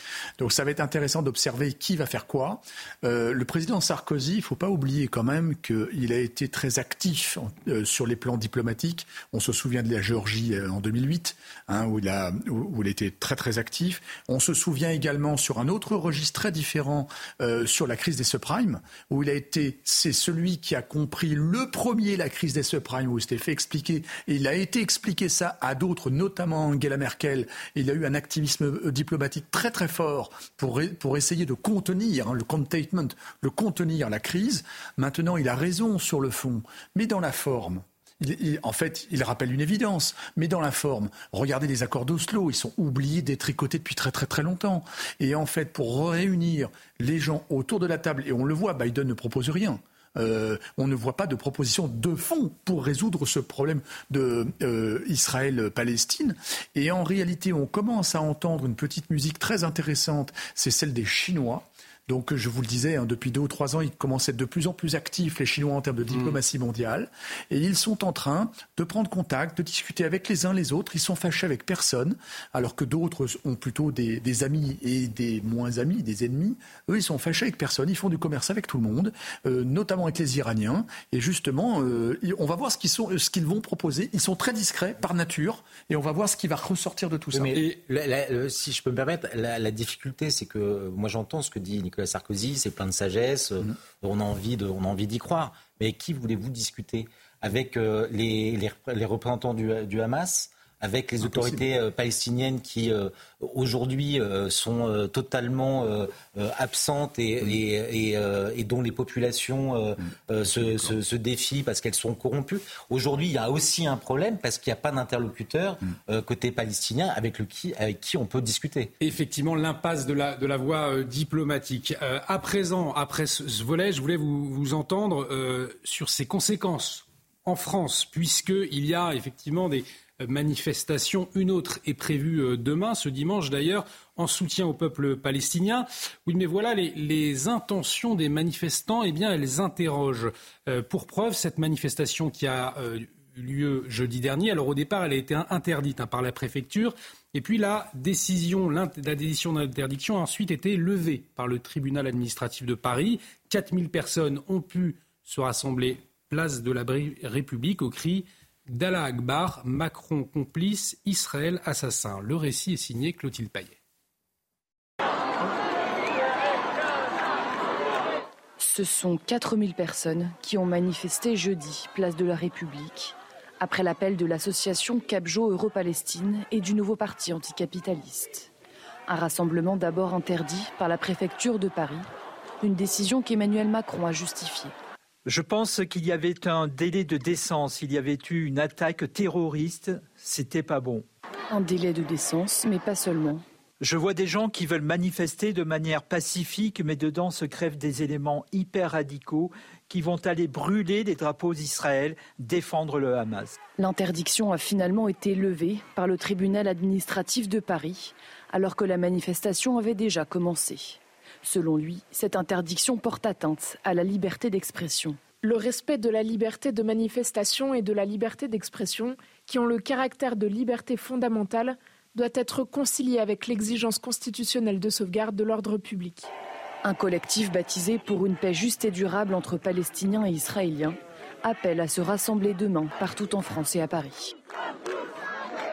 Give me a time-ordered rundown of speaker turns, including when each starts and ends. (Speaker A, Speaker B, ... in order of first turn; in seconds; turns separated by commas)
Speaker A: 0.4-87.6, Speaker B: 87.3-118.9, Speaker A: 101.2-101.6, Speaker C: 119.0-163.8, Speaker D: 168.6-178.5, Speaker D: 179.1-182.1, Speaker D: 182.6-184.7, Speaker E: 185.3-191.1, Speaker D: 191.5-193.4, Speaker E: 193.8-203.6, Speaker D: 203.8-215.2, Speaker F: 215.4-226.3, Speaker D: 226.8-234.3